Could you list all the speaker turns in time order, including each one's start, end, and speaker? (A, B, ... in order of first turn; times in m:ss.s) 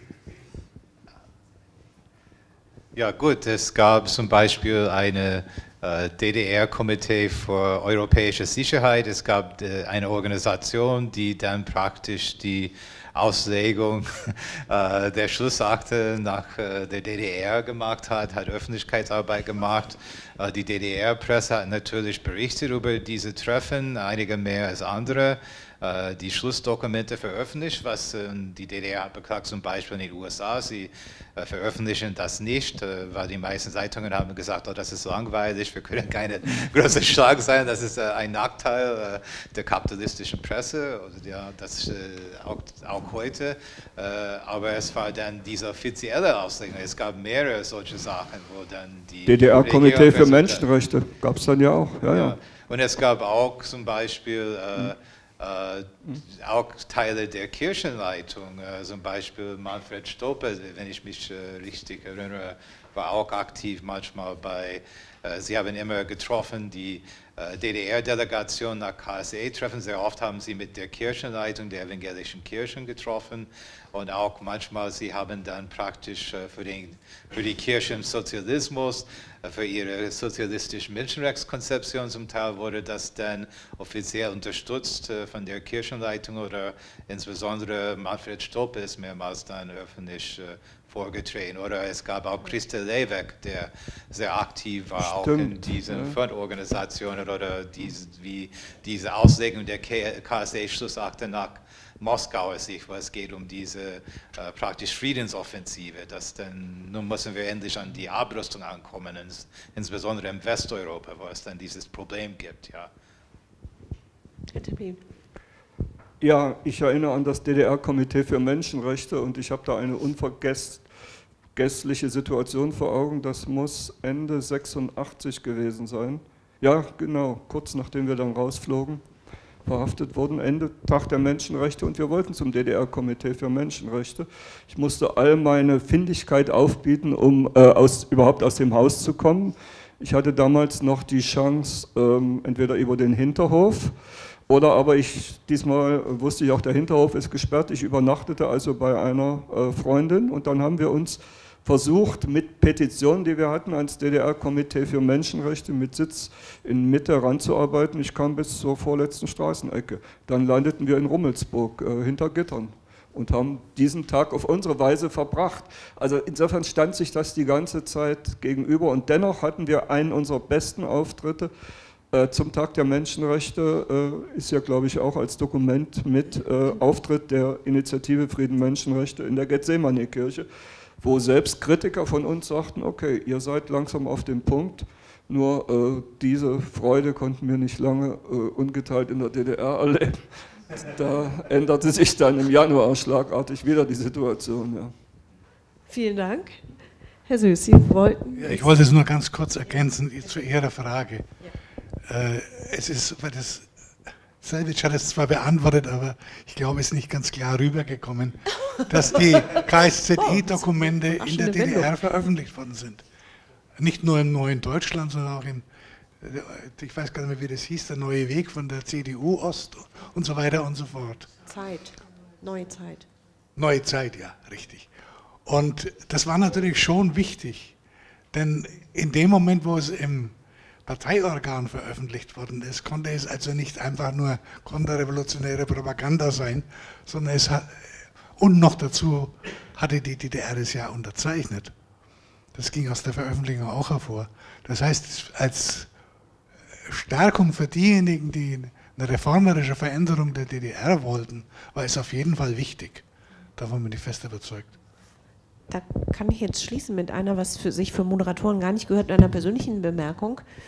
0:02.9-0:50.7 A
0:49.3-0:52.3 B
0:52.0-1:52.9 A
1:35.0-1:36.2 B
1:54.5-1:55.0 C
1:56.2-2:00.9 B
2:01.5-2:09.0 B
2:09.6-2:23.9 B
2:24.5-2:51.5 B
2:52.1-3:00.5 B
3:01.0-3:14.9 B
3:15.9-3:16.6 C
3:17.3-3:18.8 C
3:18.4-3:21.2 D
3:22.1-3:23.7 D
3:24.4-3:33.0 D
3:29.1-3:29.6 C
3:30.2-3:31.9 C
3:33.8-3:35.6 D
3:36.2-3:41.3 D
3:41.4-3:43.0 C
3:43.6-3:44.9 D
3:45.4-3:47.8 D
3:48.3-4:01.7 D
4:02.5-4:05.9 D
4:06.8-4:13.0 D
4:13.6-4:14.7 D
4:15.7-4:20.4 C